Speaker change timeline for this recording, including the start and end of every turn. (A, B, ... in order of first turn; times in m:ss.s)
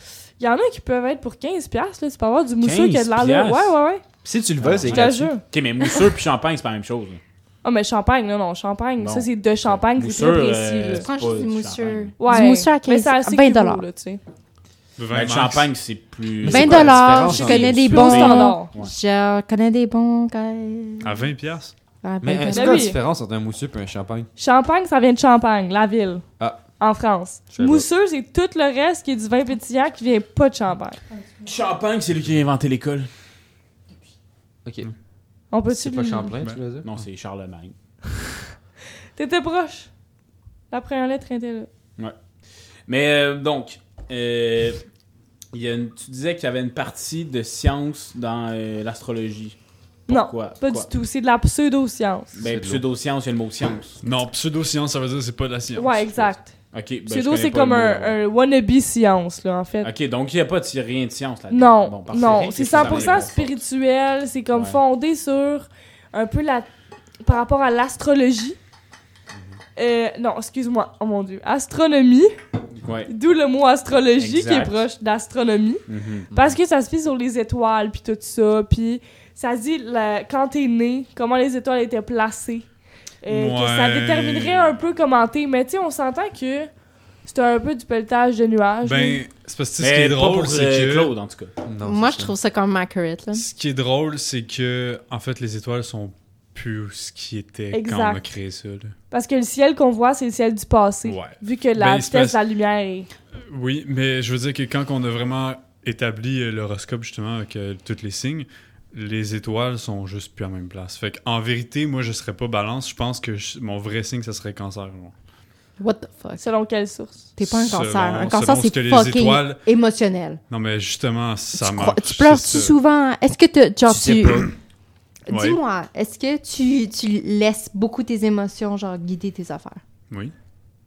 0:00.4-0:04.0 A
0:02.6-0:03.8 B
0:04.2-0:05.3 C
0:04.6-0:07.2 B
0:04.9-0:05.4 A
0:07.6-0:11.0 A
0:09.0-0:12.1 B
0:10.8-0:13.9 D
0:12.2-0:14.2 A
0:15.0-0:15.7 E
0:15.1-0:18.9 B
0:16.4-0:17.9 C
0:16.5-0:21.3 D
0:17.3-0:18.7 A
0:21.0-0:21.7 E
0:22.0-0:22.9 D
0:22.2-0:24.3 C
0:22.5-0:23.0 A
0:24.4-0:26.2 A
0:26.8-0:31.0 A
0:27.5-0:27.9 C
0:31.4-0:33.1 B
0:35.5-0:36.3 A
0:35.7-0:36.9 C
0:36.8-0:37.8 B
0:39.2-0:39.9 A
0:40.7-0:41.7 A
0:42.9-0:44.8 B
0:45.5-0:49.6 B
0:50.1-0:50.9 B
0:50.1-0:52.3 A
0:52.4-0:54.0 B
0:52.4-0:52.8 C
0:54.0-0:56.4 E
0:55.8-0:56.5 A
0:56.7-0:58.2 B
0:57.1-0:59.9 A
0:59.8-1:03.6 B
1:01.5-1:06.7 A
1:02.1-1:03.3 C
1:04.5-1:04.8 B
1:07.2-1:08.6 A
1:09.8-1:12.3 A
1:12.8-1:13.1 B
1:13.1-1:22.7 A
1:14.2-1:14.8 B
1:15.9-1:16.3 B
1:23.2-1:26.7 A
1:23.3-1:24.8 E
1:27.2-1:29.2 A
1:28.8-1:31.1 E
1:29.8-1:31.5 B
1:31.6-1:32.4 C
1:31.8-1:33.4 D
1:33.4-1:39.0 E
1:37.7-1:38.2 A
1:39.1-1:43.1 A
1:41.0-1:42.4 E
1:43.5-1:55.1 E
1:55.8-1:56.4 D
1:56.4-1:57.2 A
1:57.4-2:00.4 D
1:57.4-1:59.6 E
2:00.5-2:02.7 E
2:01.5-2:04.5 D
2:03.9-2:04.5 C
2:05.3-2:09.8 D
2:05.3-2:05.6 E